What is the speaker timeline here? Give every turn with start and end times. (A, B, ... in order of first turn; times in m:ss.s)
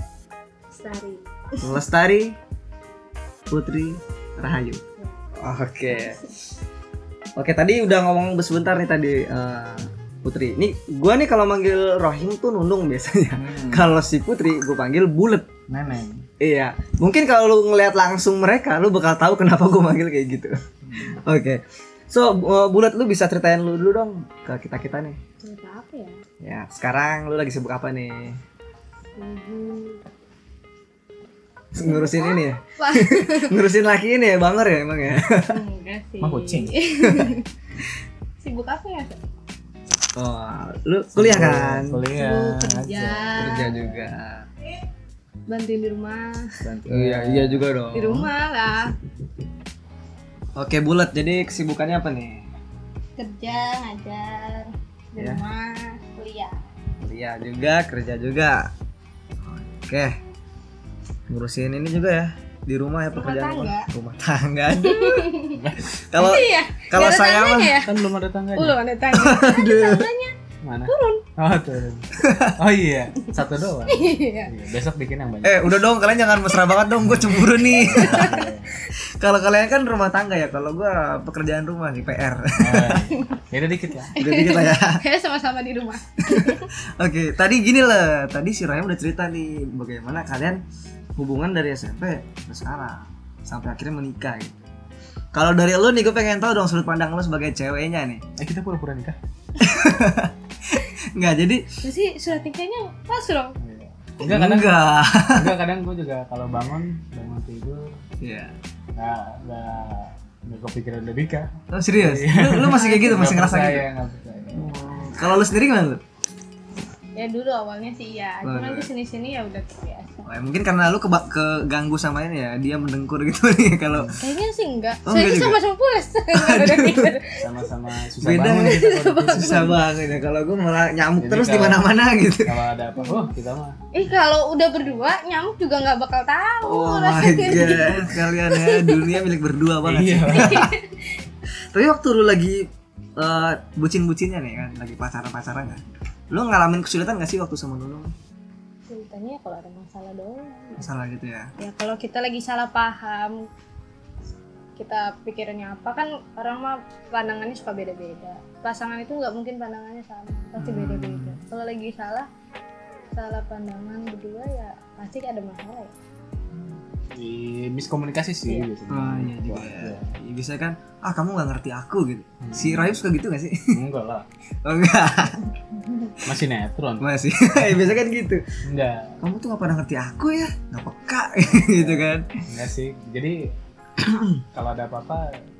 0:00.7-0:01.8 A
0:01.6-0:02.4 B
0:03.5-0:04.8 B
0:05.4-0:06.2 B
0:07.4-0:15.5 B
0:13.3-0:13.9 C
0:15.7-0:16.2 C
0:16.4-0:25.2 B
0:20.8-0:21.2 C
0:25.4-0:26.2 A
0:26.4-0:28.4 B
0:29.2-0:30.0 A
0:31.7-0:35.6 B
0:31.8-0:33.6 A
0:35.5-0:37.4 A
0:36.2-0:36.8 C
0:37.0-0:37.3 B
0:38.4-0:39.2 A
0:40.2-0:42.0 B
0:41.1-0:43.7 C
0:42.1-0:44.0 A
0:43.4-0:44.5 B
0:45.5-0:46.6 A
0:46.6-0:47.7 C
0:46.9-0:48.3 B
0:47.9-0:48.9 A
0:50.6-0:52.5 B
0:53.2-0:56.6 A
0:55.2-0:55.4 B
0:57.0-0:58.7 B
0:59.4-1:00.2 B
1:01.3-1:05.4 B
1:03.1-1:03.9 A
1:04.7-1:05.6 A
1:05.5-1:05.9 C
1:05.9-1:07.8 B
1:06.1-1:07.9 A
1:07.8-1:08.8 C
1:08.5-1:10.3 A
1:09.1-1:10.1 B
1:10.6-1:12.0 C
1:10.9-1:11.2 A
1:12.1-1:12.6 B
1:12.6-1:15.6 C
1:13.9-1:14.5 A
1:15.4-1:23.0 B
1:17.1-1:18.7 C
1:17.9-1:18.4 A
1:22.6-1:24.2 C
1:24.1-1:26.6 A
1:24.2-1:25.0 B
1:26.2-1:30.6 B
1:31.2-1:34.6 B
1:35.3-1:38.2 B
1:38.4-1:39.2 C
1:39.6-1:41.6 B
1:41.8-1:43.5 A
1:43.6-1:47.9 C
1:44.2-1:45.6 B
1:48.2-1:48.5 B
1:49.0-1:54.7 C
1:51.7-1:53.8 B
1:54.5-1:56.0 B
1:57.2-2:00.3 A
1:58.4-1:58.9 B
2:00.2-2:04.2 B
2:04.2-2:07.4 A
2:05.0-2:05.6 B
2:06.3-2:07.1 B
2:07.3-2:09.8 C
2:08.2-2:12.6 B
2:08.4-2:09.8 A
2:11.2-2:11.9 C
2:12.4-2:13.8 C
2:13.0-2:13.3 A
2:13.9-2:19.2 A
2:16.6-2:20.7 B
2:19.8-2:20.7 C
2:20.3-2:21.2 A
2:21.7-2:22.6 B
2:23.2-2:28.1 B
2:28.9-2:30.9 A
2:30.8-2:31.5 B
2:31.6-2:33.4 A
2:34.8-2:42.3 A
2:40.6-2:41.4 B
2:43.1-2:45.9 A
2:47.2-2:50.1 C
2:48.9-2:53.7 B
2:52.4-2:53.0 C
2:53.7-2:54.2 C
2:54.6-2:55.4 B
2:56.2-2:57.9 C
2:57.0-2:58.4 B
2:58.6-2:59.2 C
2:59.2-3:02.3 B
3:01.5-3:03.4 C
3:04.5-3:05.2 C